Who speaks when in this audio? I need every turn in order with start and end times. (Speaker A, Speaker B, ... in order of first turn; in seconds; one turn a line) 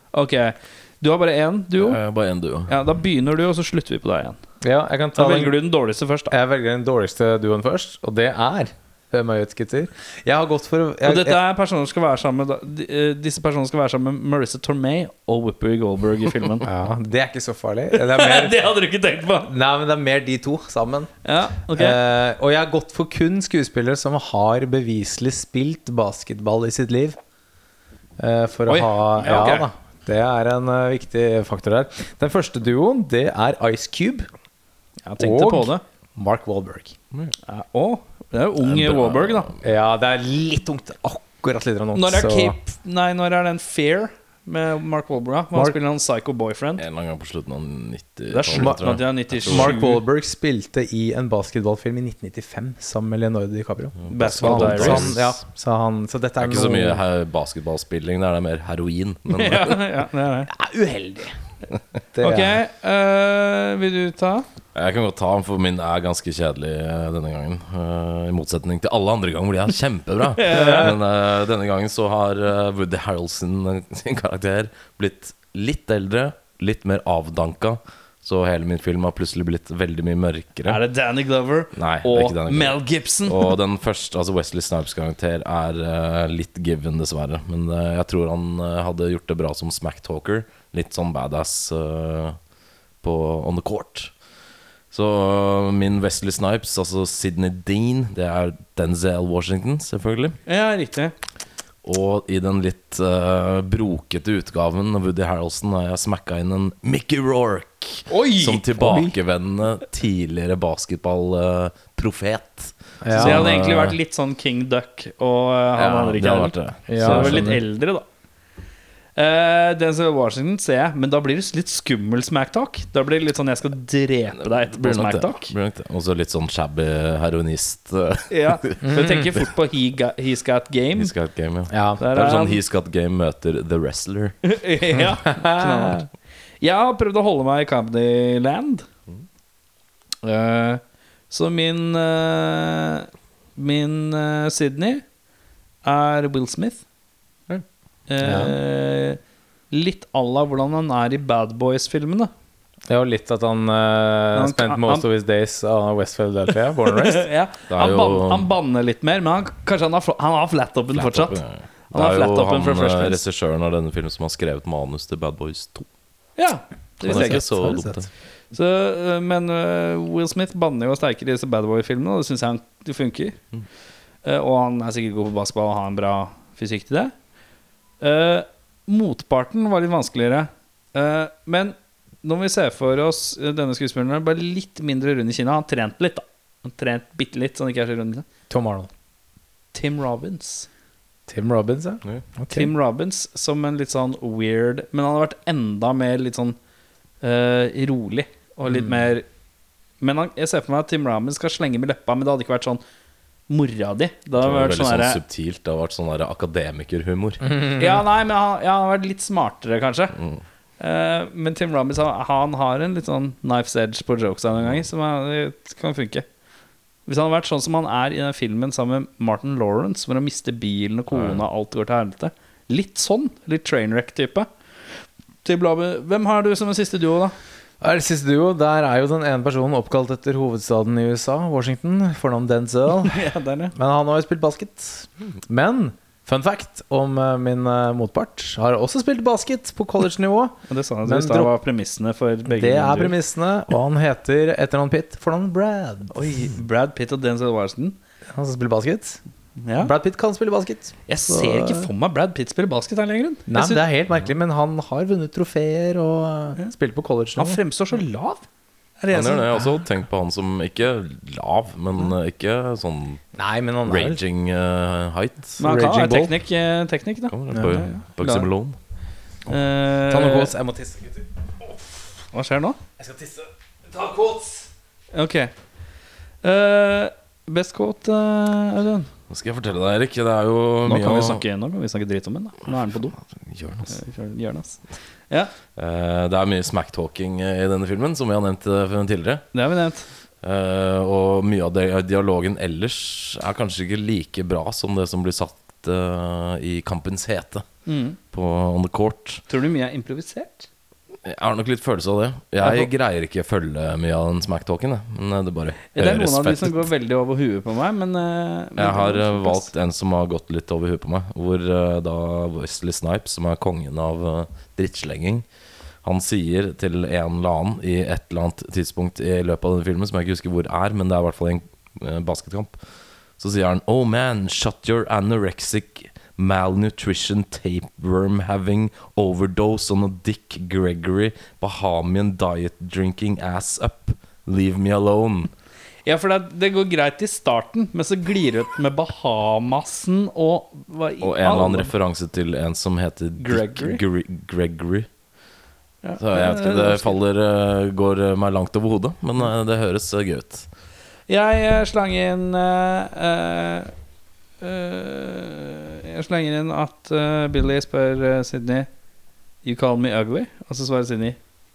Speaker A: 0.1-2.0
Speaker B: 1.8-2.8
Speaker A: 2.7-4.4
Speaker C: 4.6-5.6
Speaker A: 5.2-6.3
Speaker C: 6.3-11.4
Speaker A: 11.0-16.7
Speaker C: 16.6-18.7
Speaker A: 17.9-19.5
Speaker C: 19.4-21.1
Speaker A: 21.2-22.0
Speaker C: 21.7-27.2
Speaker C: 28.2-34.3
Speaker A: 28.7-29.7
Speaker A: 35.1-35.8
Speaker C: 35.2-37.0
Speaker A: 37.4-39.5
Speaker B: 38.6-39.6
Speaker C: 39.6-42.6
Speaker A: 41.9-46.8
Speaker B: 46.8-49.8
Speaker A: 48.3-50.0
Speaker C: 48.5-57.0
Speaker B: 54.0-55.4
Speaker A: 54.1-55.1
Speaker B: 56.4-59.8
Speaker A: 59.3-60.5
Speaker C: 60.5-61.4
Speaker C: 62.1-62.6
Speaker A: 62.2-64.5
Speaker B: 64.8-80.8
Speaker A: 70.4-70.9
Speaker C: 70.5-70.9
Speaker A: 80.7-83.5
Speaker B: 81.7-92.4
Speaker B: 93.0-94.1
Speaker B: 94.9-100.4
Speaker A: 100.5-101.2
Speaker B: 101.8-114.0
Speaker A: 108.1-109.0
Speaker C: 108.8-109.1
Speaker C: 113.0-113.5
Speaker A: 113.2-118.0
Speaker B: 115.8-117.5
Speaker C: 116.9-117.6
Speaker A: 119.2-125.5
Speaker B: 124.4-129.1
Speaker A: 128.3-131.1
Speaker B: 131.0-134.4
Speaker C: 131.7-132.0
Speaker A: 132.0-132.6
Speaker A: 134.4-136.1
Speaker C: 135.3-136.0
Speaker A: 136.6-138.9
Speaker A: 140.2-145.0
Speaker A: 145.8-146.8
Speaker A: 148.1-149.2
Speaker C: 148.2-148.5
Speaker A: 149.7-152.3
Speaker C: 152.9-157.3
Speaker A: 154.3-155.1
Speaker A: 156.9-161.4
Speaker B: 157.7-158.5
Speaker B: 160.9-165.9
Speaker A: 161.9-163.2
Speaker A: 166.4-167.4
Speaker C: 167.0-168.0
Speaker B: 167.0-168.1
Speaker A: 168.5-173.4
Speaker A: 174.2-177.1
Speaker A: 178.0-188.3
Speaker C: 188.5-188.9
Speaker A: 189.7-190.7
Speaker C: 191.3-192.7
Speaker A: 192.5-196.6
Speaker A: 197.2-199.2
Speaker C: 198.7-198.9
Speaker A: 200.0-202.8
Speaker A: 203.5-205.2
Speaker B: 204.4-207.5
Speaker A: 207.7-210.2
Speaker B: 210.2-210.4
Speaker A: 210.8-216.3
Speaker A: 217.1-224.5
Speaker B: 221.1-221.4
Speaker A: 225.4-227.3
Speaker C: 227.8-241.5
Speaker A: 233.1-233.7
Speaker A: 240.7-243.2
Speaker C: 242.5-246.4
Speaker A: 246.1-248.0
Speaker C: 248.3-249.2
Speaker A: 249.6-249.9
Speaker C: 249.8-251.9
Speaker A: 251.1-253.8
Speaker C: 253.5-257.6
Speaker A: 257.4-258.4
Speaker A: 259.0-259.6
Speaker B: 259.1-263.2
Speaker C: 263.4-264.2
Speaker B: 263.9-265.6
Speaker A: 265.6-268.5
Speaker C: 265.6-266.3
Speaker B: 267.3-268.8
Speaker C: 267.5-267.8
Speaker A: 269.5-270.5
Speaker C: 270.1-271.8
Speaker A: 272.3-272.8
Speaker C: 273.0-274.7
Speaker A: 275.1-275.5
Speaker A: 276.4-279.1
Speaker B: 279.3-281.4
Speaker A: 280.9-283.1
Speaker B: 283.4-284.0
Speaker A: 283.9-285.5
Speaker B: 285.8-289.4
Speaker A: 289.5-290.1
Speaker B: 290.4-297.7
Speaker A: 297.9-298.2
Speaker B: 298.3-299.4
Speaker A: 299.5-300.7
Speaker B: 301.2-306.9
Speaker A: 302.6-302.9
Speaker A: 305.9-309.7
Speaker B: 308.8-315.4
Speaker B: 316.0-322.8
Speaker B: 323.4-335.5
Speaker A: 336.1-341.9
Speaker B: 341.2-345.1
Speaker A: 343.4-344.0
Speaker A: 346.0-347.2
Speaker B: 346.2-350.7
Speaker A: 351.3-353.9
Speaker A: 354.6-358.9
Speaker A: 359.6-361.4